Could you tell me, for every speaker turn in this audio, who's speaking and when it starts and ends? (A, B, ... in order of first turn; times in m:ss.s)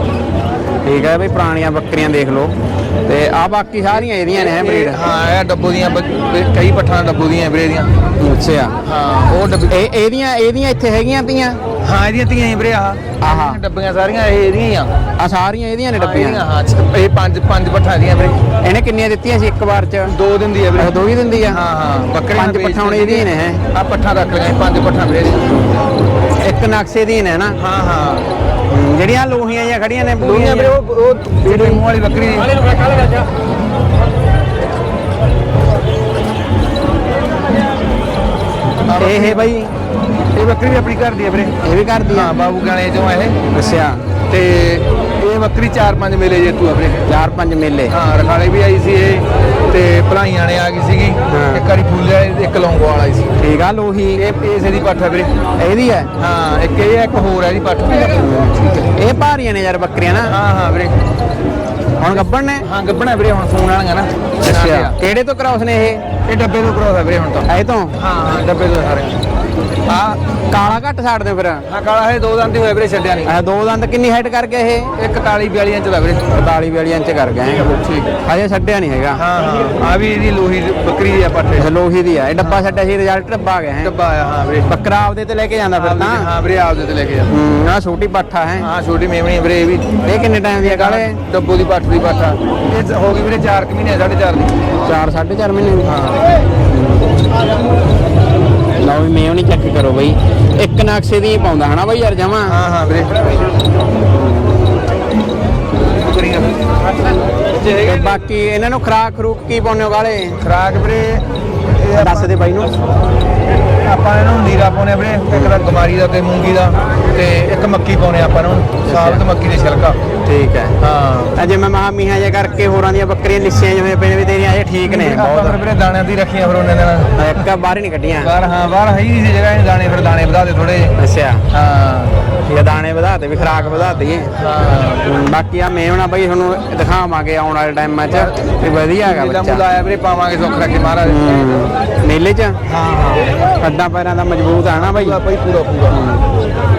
0:00.8-0:05.0 A
0:04.0-0:07.9 B
0:08.2-0:08.8 A
0:08.8-0:09.8 B
0:09.7-0:11.6 A
0:11.8-0:14.9 B
0:13.2-0:13.6 A
0:15.2-0:16.4 A
0:15.9-0:18.4 B
0:18.6-0:20.1 A
0:20.0-0:21.0 B
0:20.8-0:21.6 A
0:21.5-0:25.5 B
0:22.3-0:23.6 A
0:25.5-0:25.9 A
0:26.4-0:27.6 A
0:27.6-0:28.3 B
0:28.7-0:30.7 A
0:30.2-0:32.8 B
0:31.4-0:31.8 A
0:38.8-0:39.5 B
0:39.0-0:39.7 A
0:40.3-0:41.6 B
0:41.6-0:42.3 A
0:42.1-0:43.4 B
0:43.5-0:44.0 A
0:44.3-0:47.0 B
0:47.0-0:47.9 A
0:47.9-0:53.3 B
0:51.3-0:51.6 A
0:53.4-0:54.2 A
0:54.2-0:55.3 B
0:55.6-0:56.1 A
0:56.2-0:58.9 B
0:58.1-1:00.3 A
1:00.2-1:01.0 B
1:02.0-1:02.7 A
1:02.0-1:05.0 B
1:04.4-1:06.0 A
1:06.2-1:09.2 B
1:07.4-1:07.9 A
1:09.8-1:10.2 B
1:10.5-1:11.6 A
1:11.7-1:13.3 B
1:13.2-1:14.9 A
1:15.0-1:16.2 B
1:16.3-1:17.6 A
1:17.6-1:18.2 B
1:18.2-1:19.2 A
1:19.1-1:21.7 B
1:21.6-1:23.9 A
1:22.4-1:22.7 B
1:23.8-1:24.7 B
1:24.6-1:26.3 A
1:25.7-1:27.3 B
1:27.3-1:28.7 A
1:28.6-1:30.0 B
1:30.0-1:31.2 A
1:30.6-1:34.6 B
1:34.8-1:35.9 A
1:35.8-1:36.2 B
1:36.7-1:37.1 A
1:38.8-1:42.6 A
1:42.4-1:43.3 B
1:44.3-1:44.6 A
1:46.0-1:46.5 B
1:47.6-1:48.1 B
1:47.7-1:50.4 A
1:50.4-1:52.7 B
1:51.9-1:52.8 A
1:53.8-2:00.0 B
1:58.8-1:59.2 A
2:00.2-2:00.8 A
2:00.8-2:01.4 B
2:01.4-2:05.6 A
2:04.8-2:07.4 B
2:07.2-2:08.3 A
2:08.2-2:11.0 B
2:11.0-2:11.4 A
2:11.5-2:12.2 B
2:12.4-2:14.3 A
2:13.3-2:15.1 B
2:15.0-2:19.6 A
2:18.1-2:18.4 B
2:19.0-2:21.2 B
2:21.0-2:22.6 A
2:22.7-2:23.4 B
2:23.6-2:25.2 A
2:24.7-2:26.0 B
2:25.9-2:26.2 A